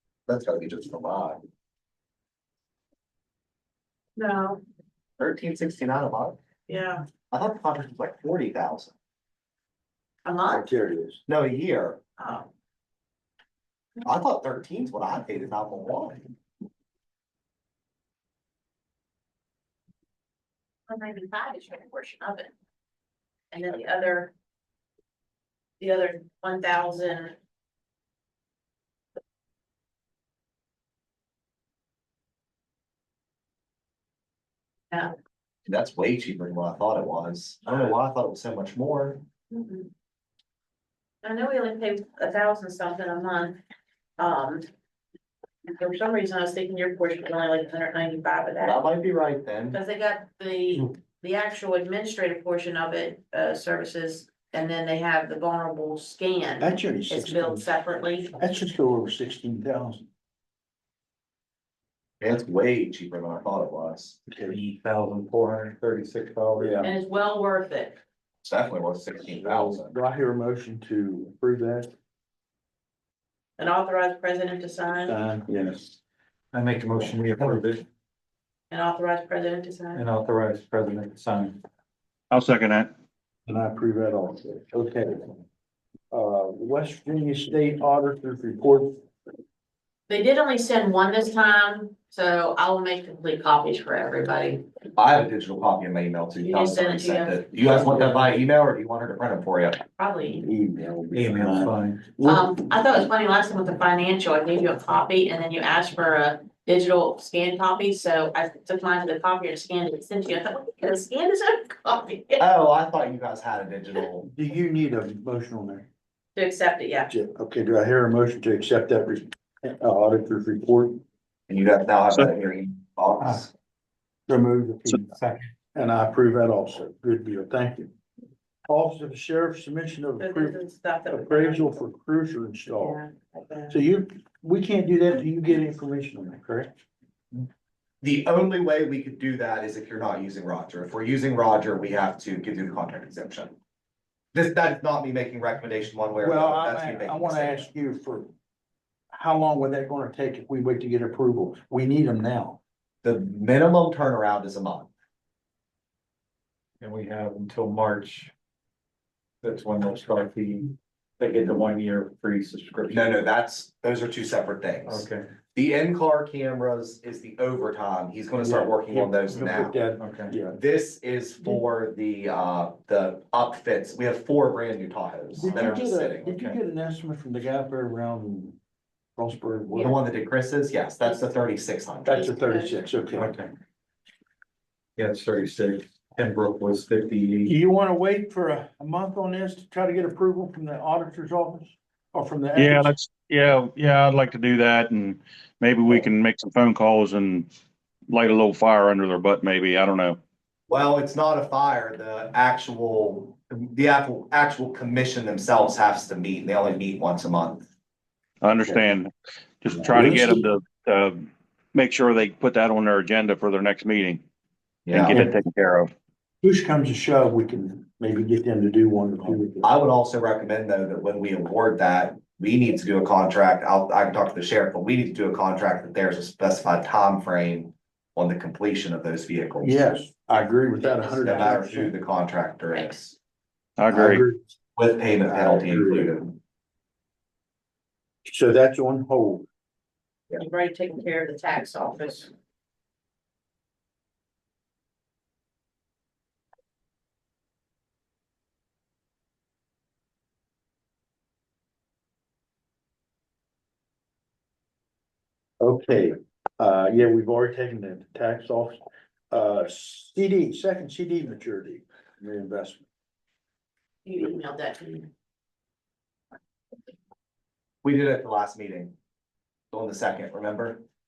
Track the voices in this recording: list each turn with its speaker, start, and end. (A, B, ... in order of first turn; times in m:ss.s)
0:00.3-0:01.4 A
0:04.2-0:04.6 B
0:05.2-0:06.4 A
0:06.7-0:07.1 B
0:07.3-0:08.9 A
0:10.2-0:10.7 B
0:10.5-0:11.2 C
0:11.3-0:12.0 A
0:12.2-0:12.5 B
0:14.0-0:16.2 A
0:20.9-0:22.5 B
0:23.5-0:24.3 B
0:25.8-0:27.4 B
0:35.7-0:39.2 A
0:39.5-0:39.9 B
0:41.2-0:43.6 B
0:44.2-0:44.6 B
0:45.7-0:48.8 B
0:48.6-0:49.8 A
0:49.7-0:58.3 B
0:56.6-0:57.7 C
0:58.4-1:00.0 C
1:02.2-1:04.2 A
1:04.3-1:04.6 C
1:04.5-1:06.8 D
1:06.6-1:06.9 C
1:06.8-1:08.0 B
1:08.4-1:09.9 A
1:09.3-1:11.9 C
1:13.6-1:15.1 B
1:15.0-1:16.0 C
1:16.5-1:17.8 D
1:18.7-1:20.0 B
1:19.9-1:21.6 D
1:22.3-1:22.9 E
1:23.5-1:25.4 C
1:26.1-1:29.0 C
1:30.1-1:34.6 B
1:34.9-1:39.8 A
1:36.4-1:37.8 B
1:37.7-1:38.2 C
1:40.0-1:40.5 B
1:40.4-1:42.5 C
1:41.1-1:42.0 D
1:42.2-1:52.4 B
1:52.4-1:54.3 A
1:54.3-1:55.9 C
1:56.4-1:57.1 B
1:57.1-2:01.0 C
2:01.5-2:03.5 A
2:04.3-2:05.1 C
2:05.7-2:07.9 C
2:08.7-2:13.0 C
2:10.2-2:11.7 B
2:12.8-2:13.8 B
2:13.7-2:16.7 C
2:18.0-2:23.6 A
2:24.3-2:27.7 A
2:26.2-2:28.3 C
2:29.1-2:32.6 C
2:33.0-2:34.9 A
2:36.8-2:38.2 D
2:39.4-2:40.7 D
2:41.2-2:43.0 D
2:42.9-2:49.8 A
2:48.4-2:50.6 C
2:50.0-2:50.3 D
2:50.5-2:56.3 A
2:55.3-2:58.6 C
2:59.2-2:59.9 C
2:59.8-3:02.3 A
3:02.0-3:03.3 C
3:02.4-3:02.8 B
3:03.2-3:03.4 D
3:05.0-3:07.5 D
3:07.5-3:12.9 C
3:12.6-3:17.5 E
3:18.1-3:20.2 E
3:20.7-3:27.7 A
3:28.4-3:34.2 E
3:28.6-3:28.9 C
3:29.8-3:30.5 C
3:34.9-3:35.2 A
3:34.9-3:35.9 E
3:36.4-3:39.7 C
3:39.6-3:50.0 A
3:49.6-3:52.0 C
3:50.8-3:51.6 B
3:51.1-3:53.2 A
3:52.7-3:53.0 B
3:53.8-3:54.2 E
3:53.9-3:54.4 C
3:54.8-3:56.4 A
3:55.1-3:56.2 C
3:58.2-3:59.5 C
4:00.4-4:02.3 B
4:15.6-4:18.8 C
4:19.3-4:22.8 C
4:24.0-4:25.1 B
4:27.8-4:28.9 A
4:29.7-4:30.8 A